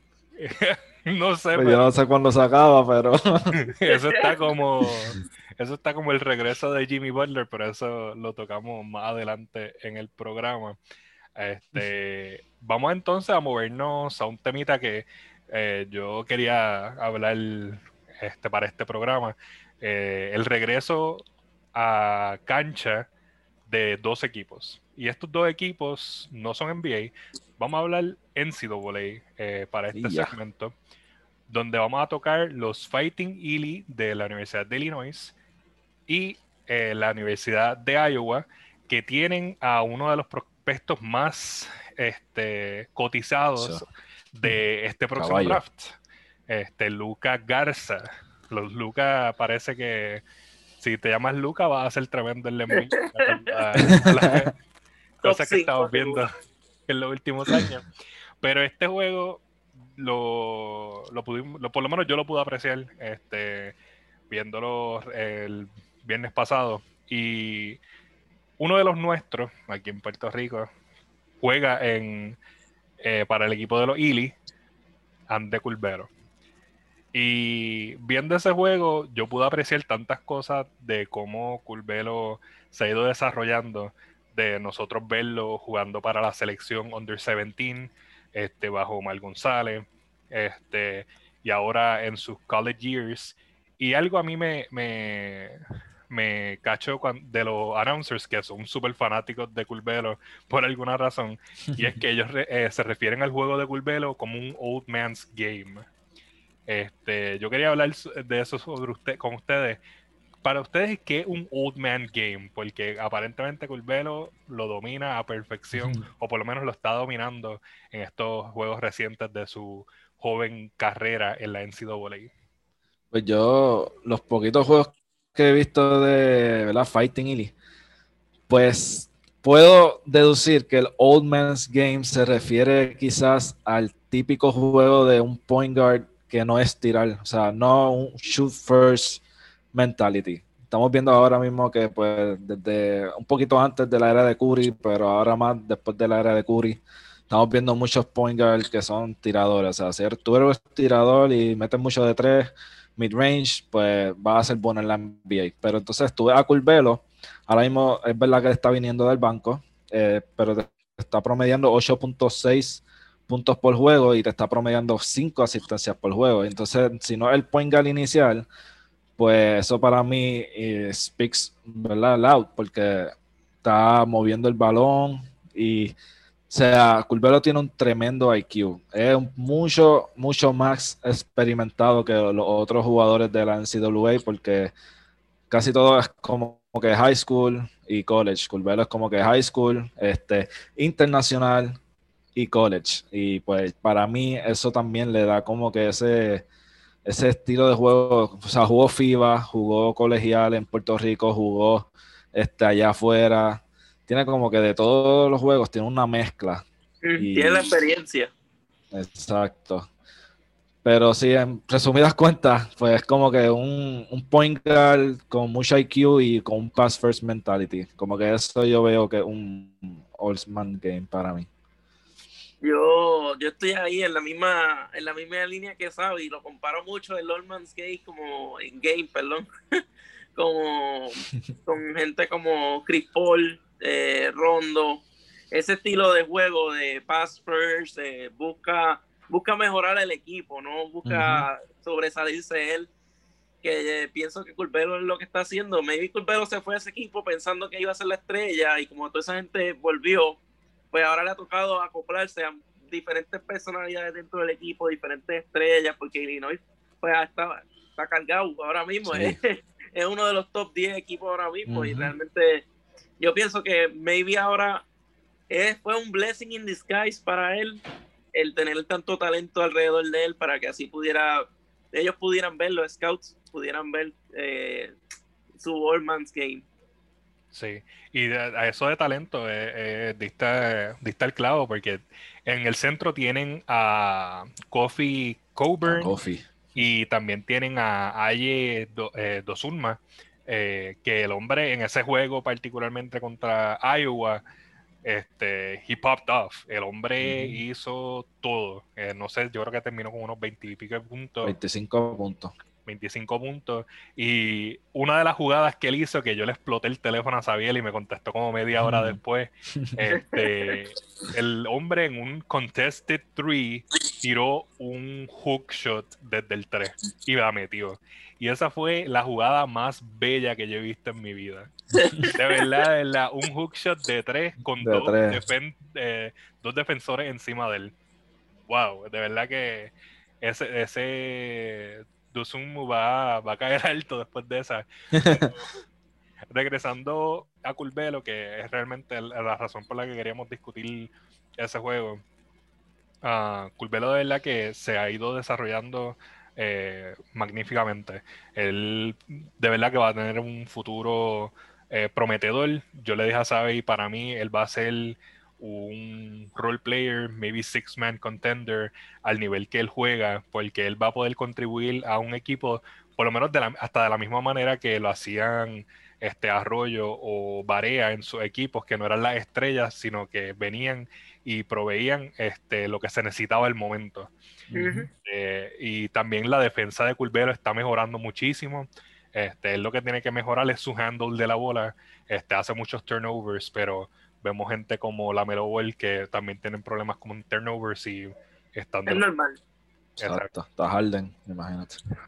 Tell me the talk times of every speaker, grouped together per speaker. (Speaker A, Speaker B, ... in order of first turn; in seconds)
Speaker A: 0.4-1.9, 3.6-10.8, 11.4-23.1, 23.7-30.7, 31.5-35.4, 36.1-50.2, 50.8-54.5, 55.2-56.3, 56.9-57.9, 58.4-59.5, 60.0-63.8, 64.3-67.8, 68.6-70.7, 71.4-72.4, 73.0-74.4, 75.3-76.1, 77.1-105.9, 106.7-109.8, 110.4-122.3, 277.5-286.1, 286.8-294.4, 295.0-301.6, 302.9-321.7, 322.3-327.9, 328.7-335.7, 336.5-342.2, 343.2-374.3, 375.2-389.2, 390.2-390.5
Speaker B: 1.6-3.5, 29.9-30.3, 43.6-43.9, 45.2-45.6, 53.9-54.4, 115.7-116.0, 123.1-127.5, 128.5-139.2, 139.7-168.5, 169.2-175.9, 176.5-184.7, 185.5-191.8, 192.3-196.4, 197.1-206.7, 207.2-207.7, 208.9-209.9, 210.8-221.5, 241.1-241.5, 259.0-259.4, 261.7-262.1, 285.9-286.8, 297.2-297.6, 301.4-302.5, 308.8-309.2, 324.8-325.4, 335.1-335.5, 374.7-375.1, 390.2-392.0
Speaker C: 3.9-4.3, 52.7-53.6, 55.2-56.2, 207.0-208.3, 222.6-229.5, 230.4-242.9, 243.6-250.4, 250.9-262.7, 263.2-264.9, 265.5-275.0, 275.6-276.7, 310.1-310.7, 322.0-322.7, 374.7-375.1, 389.1-389.6